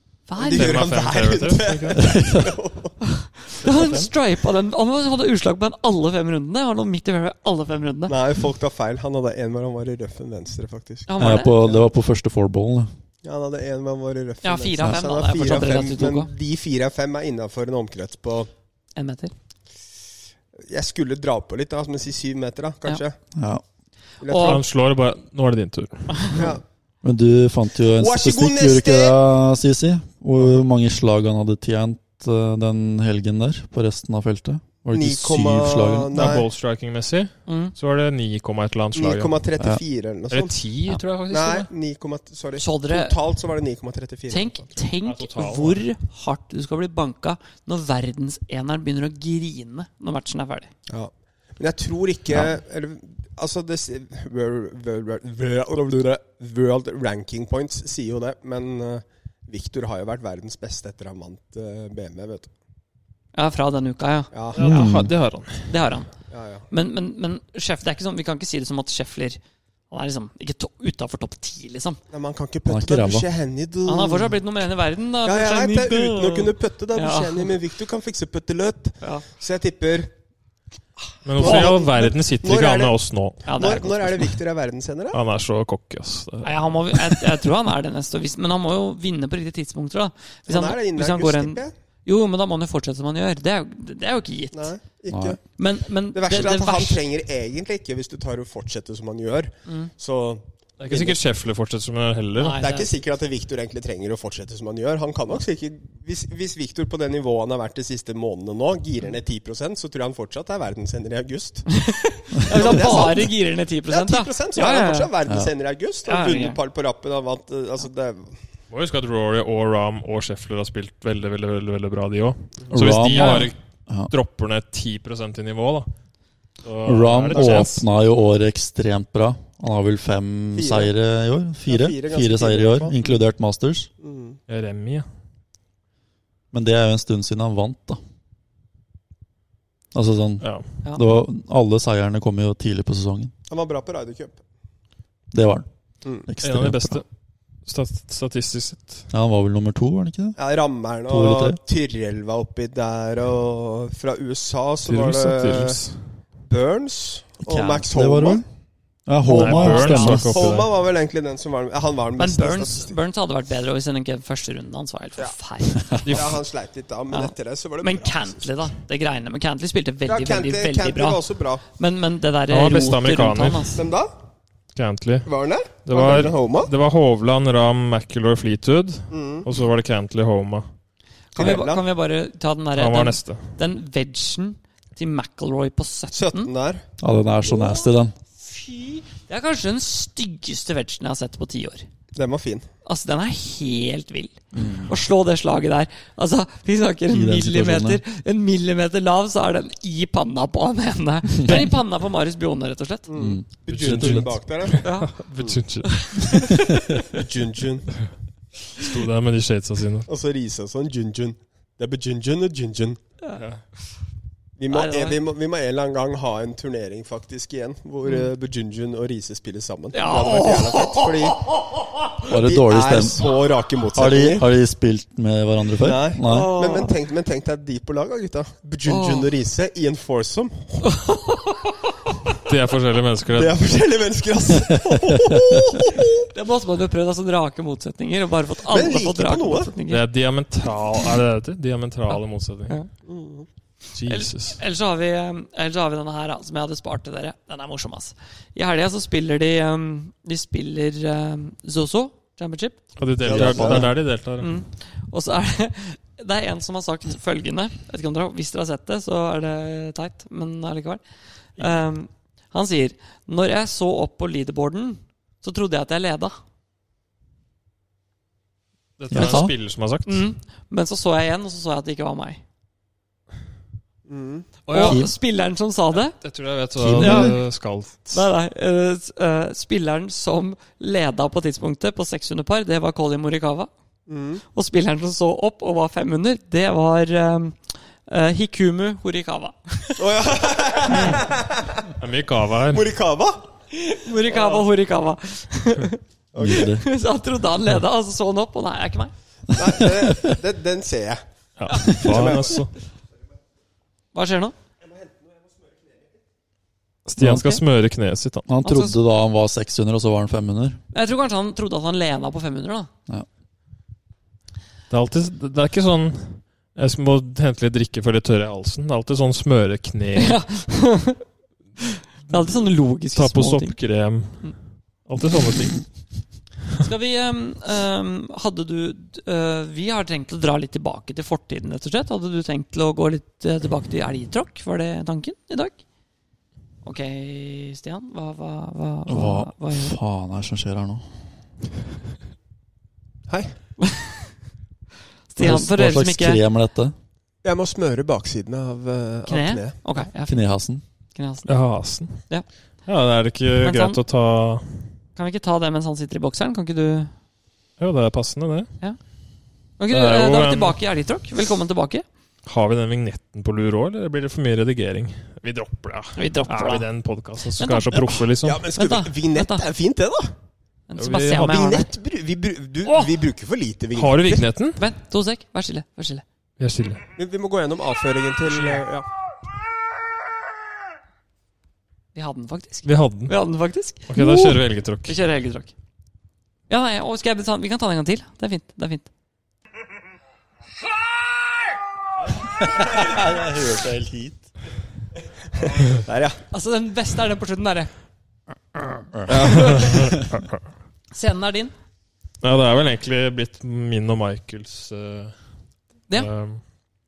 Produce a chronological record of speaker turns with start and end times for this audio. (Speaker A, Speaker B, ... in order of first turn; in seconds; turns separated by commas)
Speaker A: 0.3-0.9, Speaker B: 0.4-3.0, Speaker C: 0.5-2.2, Speaker D: 2.0-2.5, Speaker A: 3.0-8.2, Speaker C: 3.6-4.1, Speaker B: 8.1-11.9, Speaker A: 11.1-11.6, Speaker D: 11.2-12.9, Speaker B: 13.2-18.5, Speaker A: 14.4-16.3, Speaker A: 18.9-19.3, Speaker B: 20.7-23.2, Speaker D: 23.4-23.6, Speaker B: 24.2-24.6, Speaker A: 24.3-24.6, Speaker C: 24.4-26.4, Speaker A: 26.1-26.5, Speaker B: 26.3-26.6, Speaker D: 27.0-36.4, Speaker B: 27.9-29.1, Speaker B: 34.9-36.5, Speaker C: 36.1-39.4, Speaker A: 37.5-37.7, Speaker B: 39.0-40.6, Speaker C: 40.3-41.7, Speaker B: 41.3-44.8, Speaker A: 42.6-43.2, Speaker A: 44.3-50.7, Speaker C: 45.0-45.8, Speaker B: 50.9-62.5, Speaker A: 63.3-64.3, Speaker B: 64.3-64.7, Speaker C: 64.5-65.8, Speaker D: 64.6-65.2, Speaker A: 65.7-66.1, Speaker B: 66.3-66.7, Speaker A: 66.7-72.0, Speaker B: 72.1-74.4, Speaker D: 72.7-73.3, Speaker A: 73.8-77.5, Speaker B: 75.2-80.1, Speaker A: 79.0-79.3, Speaker C: 81.2-83.8, Speaker B: 81.3-85.2, Speaker A: 81.4-81.7, Speaker A: 83.5-84.3, Speaker C: 85.1-87.3, Speaker A: 86.4-94.7, Speaker B: 90.5-91.7, Speaker B: 94.5-95.4, Speaker D: 95.1-95.4, Speaker A: 95.6-97.0, Speaker B: 96.1-101.2, Speaker C: 100.8-102.6, Speaker A: 102.4-102.9, Speaker B: 102.5-113.4, Speaker A: 111.7-115.1, Speaker B: 113.9-118.3, Speaker D: 115.3-115.5, Speaker A: 116.1-116.6, Speaker C: 118.7-123.6, Speaker D: 122.7-124.1, Speaker A: 123.1-123.5, Speaker C: 124.1-125.9, Speaker C: 126.6-127.8, Speaker D: 126.9-133.9, Speaker B: 127.3-127.7, Speaker B: 130.5-130.9, Speaker B: 131.7-133.0, Speaker B: 134.0-134.4, Speaker C: 134.5-135.1, Speaker D: 136.5-138.0, Speaker D: 139.9-143.3, Speaker B: 143.5-144.4, Speaker D: 145.3-145.7, Speaker D: 146.2-147.0, Speaker C: 146.4-147.1, Speaker C: 147.7-149.1, Speaker D: 149.1-150.4, Speaker B: 150.4-155.8, Speaker D: 151.1-151.6, Speaker C: 154.8-156.0, Speaker B: 156.5-158.4, Speaker D: 157.4-158.4, Speaker D: 159.1-160.5, Speaker A: 159.2-160.3, Speaker C: 159.3-160.7, Speaker B: 160.0-163.0, Speaker A: 162.2-166.1, Speaker B: 165.9-168.5, Speaker C: 166.0-166.4, Speaker A: 167.1-173.8, Speaker B: 170.1-171.6, Speaker C: 172.5-173.7, Speaker B: 173.8-174.1, Speaker C: 174.8-175.3, Speaker B: 175.3-176.7, Speaker C: 175.8-180.7, Speaker B: 179.1-179.5, Speaker A: 181.3-186.5, Speaker B: 181.3-181.8, Speaker C: 182.8-183.5, Speaker B: 186.1-186.8, Speaker D: 187.0-188.2, Speaker A: 187.5-191.8, Speaker B: 192.1-192.7, Speaker A: 192.8-203.1, Speaker D: 194.5-194.9, Speaker D: 197.1-198.0, Speaker D: 201.4-201.7, Speaker B: 203.1-205.6, Speaker D: 203.2-204.4, Speaker C: 203.7-206.7, Speaker A: 204.8-205.2, Speaker A: 205.9-206.8, Speaker B: 207.1-208.1, Speaker C: 208.8-210.1, Speaker B: 210.1-213.0, Speaker C: 213.4-213.6, Speaker B: 214.6-221.6, Speaker A: 214.7-215.2, Speaker A: 218.1-218.3, Speaker A: 219.9-221.6, Speaker D: 222.3-223.3, Speaker B: 222.3-224.4, Speaker D: 223.9-226.5, Speaker B: 225.8-231.0, Speaker A: 226.3-226.9, Speaker A: 228.8-229.3, Speaker A: 230.9-231.7, Speaker C: 232.4-233.6, Speaker B: 233.3-236.3, Speaker D: 235.1-235.8, Speaker A: 236.3-240.0, Speaker B: 238.7-239.7, Speaker C: 239.9-242.8, Speaker B: 243.1-243.5, Speaker C: 243.9-244.6, Speaker A: 244.1-252.8, Speaker C: 253.0-254.5, Speaker B: 253.2-253.9, Speaker D: 253.3-253.9, Speaker A: 254.4-261.0, Speaker A: 261.6-266.4, Speaker C: 269.0-270.2, Speaker D: 269.1-269.5, Speaker A: 269.1-269.5, Speaker A: 270.1-272.4, Speaker B: 274.1-274.5, Speaker C: 274.7-275.1, Speaker A: 274.7-276.2, Speaker D: 274.9-275.1, Speaker C: 276.1-278.3, Speaker D: 276.8-277.4, Speaker A: 277.0-277.4, Speaker A: 278.1-283.7, Speaker B: 284.1-284.4, Speaker A: 284.5-290.1, Speaker B: 290.0-291.9, Speaker C: 290.9-291.3, Speaker C: 291.9-292.8, Speaker B: 292.7-293.4, Speaker A: 293.7-299.1, Speaker B: 296.3-296.7, Speaker D: 296.4-296.8, Speaker B: 299.5-301.2, Speaker C: 301.6-302.7, Speaker A: 301.7-302.1, Speaker B: 301.9-302.6, Speaker A: 304.1-304.5, Speaker C: 307.1-308.5, Speaker D: 307.2-307.4, Speaker A: 307.2-307.6, Speaker D: 308.5-310.8, Speaker A: 308.6-309.0, Speaker A: 310.9-312.9, Speaker C: 314.9-320.4, Speaker A: 320.2-321.2, Speaker A: 322.3-323.8, Speaker C: 323.1-325.9, Speaker A: 326.8-335.8, Speaker A: 336.8-340.0, Speaker D: 339.1-341.2, Speaker B: 343.3-343.5, Speaker A: 343.9-344.1, Speaker A: 345.3-346.4, Speaker D: 345.4-346.9, Speaker B: 347.4-349.8, Speaker A: 349.3-350.4, Speaker D: 350.3-350.8, Speaker A: 351.1-351.6, Speaker C: 351.5-352.3, Speaker C: 352.9-354.9, Speaker A: 353.6-354.0, Speaker A: 355.2-357.1, Speaker C: 357.8-358.7, Speaker A: 359.8-362.1, Speaker C: 359.9-360.8, Speaker C: 362.5-368.6, Speaker A: 366.2-366.9, Speaker A: 367.6-369.7, Speaker B: 368.4-370.3, Speaker A: 370.9-371.9, Speaker C: 371.0-371.5, Speaker B: 371.4-374.4, Speaker A: 372.9-373.1, Speaker C: 373.9-374.8, Speaker A: 374.8-376.2, Speaker C: 376.6-377.0, Speaker B: 377.2-379.1, Speaker C: 378.5-378.8, Speaker A: 382.1-385.7, Speaker C: 382.8-383.3, Speaker C: 384.1-385.2, Speaker A: 386.7-389.1, Speaker D: 392.6-394.5, Speaker B: 395.8-396.4, Speaker A: 396.5-397.9, Speaker A: 398.8-399.9, Speaker D: 399.1-400.2, Speaker C: 399.3-400.6, Speaker A: 401.1-401.7, Speaker C: 402.4-405.4, Speaker C: 406.1-406.6